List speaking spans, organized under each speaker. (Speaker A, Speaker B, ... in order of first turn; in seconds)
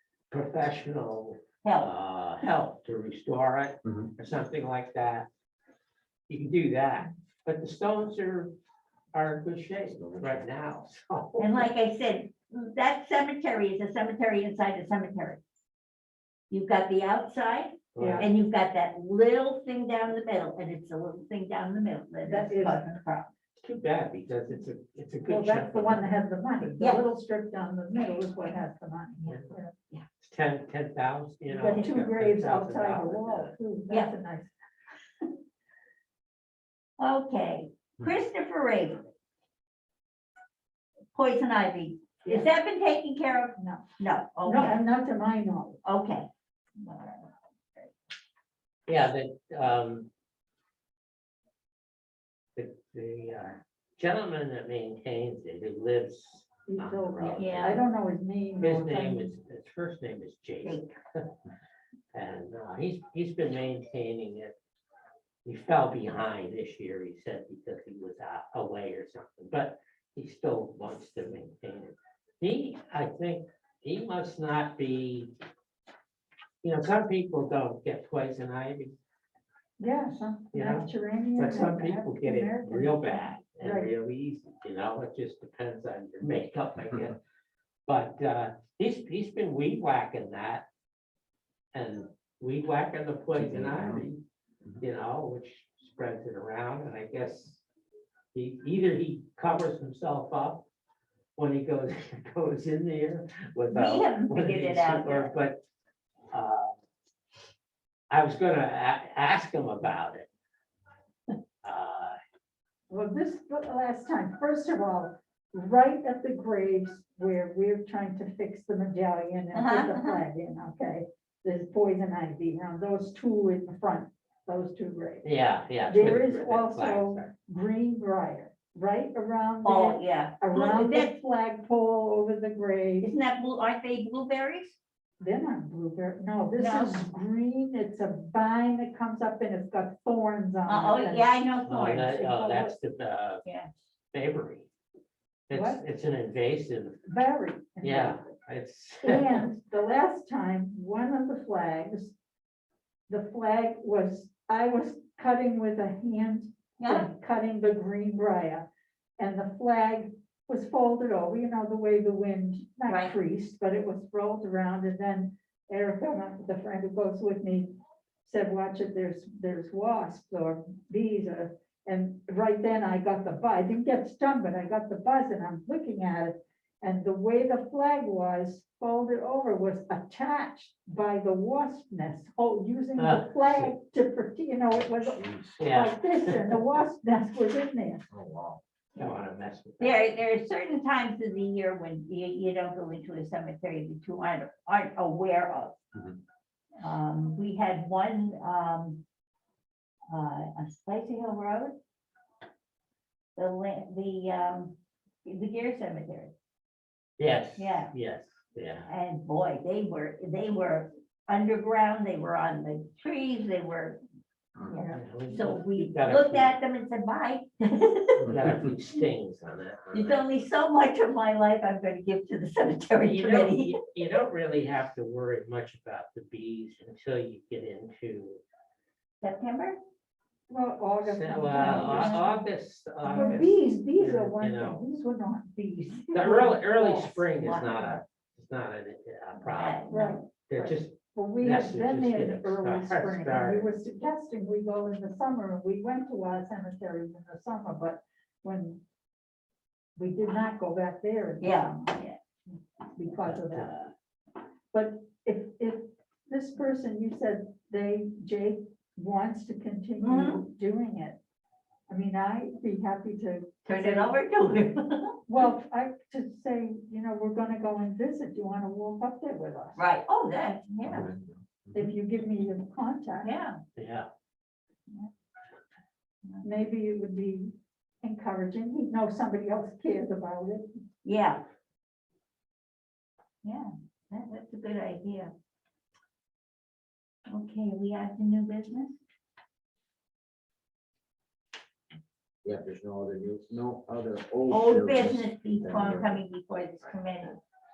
Speaker A: 0.3-5.3, 6.3-8.5, 9.1-11.7, 17.9-18.3, 23.6-26.1, 30.2-33.5, 48.9-50.1, 52.6-57.8, 58.6-61.3, 62.1-64.6, 65.5-75.3, 76.6-79.0, 80.5-87.2, 87.9-90.7, 91.7-94.2, 94.8-97.6, 98.3-100.7, 101.4-105.6, 106.3-106.7, 108.1-110.3, 111.6-112.2, 125.2-127.3, 141.7-143.4, 144.1-144.7, 145.5-147.0, 147.8-149.4, 183.0-183.7, 185.6-186.6, 189.0-190.1, 207.2-208.9, 214.9-216.6, 218.2-220.2, 223.0-228.4, 231.0-234.9, 236.1-239.8, 240.5-243.7, 273.8-274.1
Speaker B: 1.6-1.9, 11.4-15.4, 16.5-23.3, 26.8-27.0, 37.0-39.0, 41.1-44.8, 45.8-46.3, 46.8-47.9, 57.4-57.8, 60.6-61.0, 103.7-105.3, 119.5-120.2, 129.6-131.1, 133.0-134.8, 136.6-137.1, 140.7-142.2, 143.4-143.7, 156.8-157.1, 162.9-163.2, 189.8-195.8, 196.8-199.0, 200.1-201.8, 203.4-206.3, 207.6-207.9, 208.9-214.0, 214.6-218.3, 219.9-223.8, 229.2-229.8, 231.5-232.3, 235.7-238.0, 239.4-240.2, 251.4-252.2, 253.5-253.9, 260.0-260.4, 263.6-265.2, 269.8-271.1, 273.2-273.6, 276.2-276.5, 281.0-281.4, 283.4-285.3, 287.3-289.0, 294.5-297.4
Speaker C: 18.0-18.3, 22.2-22.9, 25.3-29.7, 31.5-34.5, 42.2-42.5, 43.6-43.8, 44.4-45.8, 56.7-59.3, 79.8-83.9, 112.9-125.2, 125.9-133.1, 135.2-141.3, 142.1-142.7, 145.5-145.8, 147.1-148.2, 149.0-152.2, 153.1-167.7, 168.2-188.0, 230.5-232.4, 233.0-236.6, 239.9-248.8, 250.0-252.0, 252.9-253.8, 254.7-261.2, 261.9-264.2, 265.3-269.8, 271.7-273.3, 276.4-280.8
Speaker D: 93.6-94.0, 184.8-185.6, 188.1-188.6, 270.8-271.8, 292.4-296.2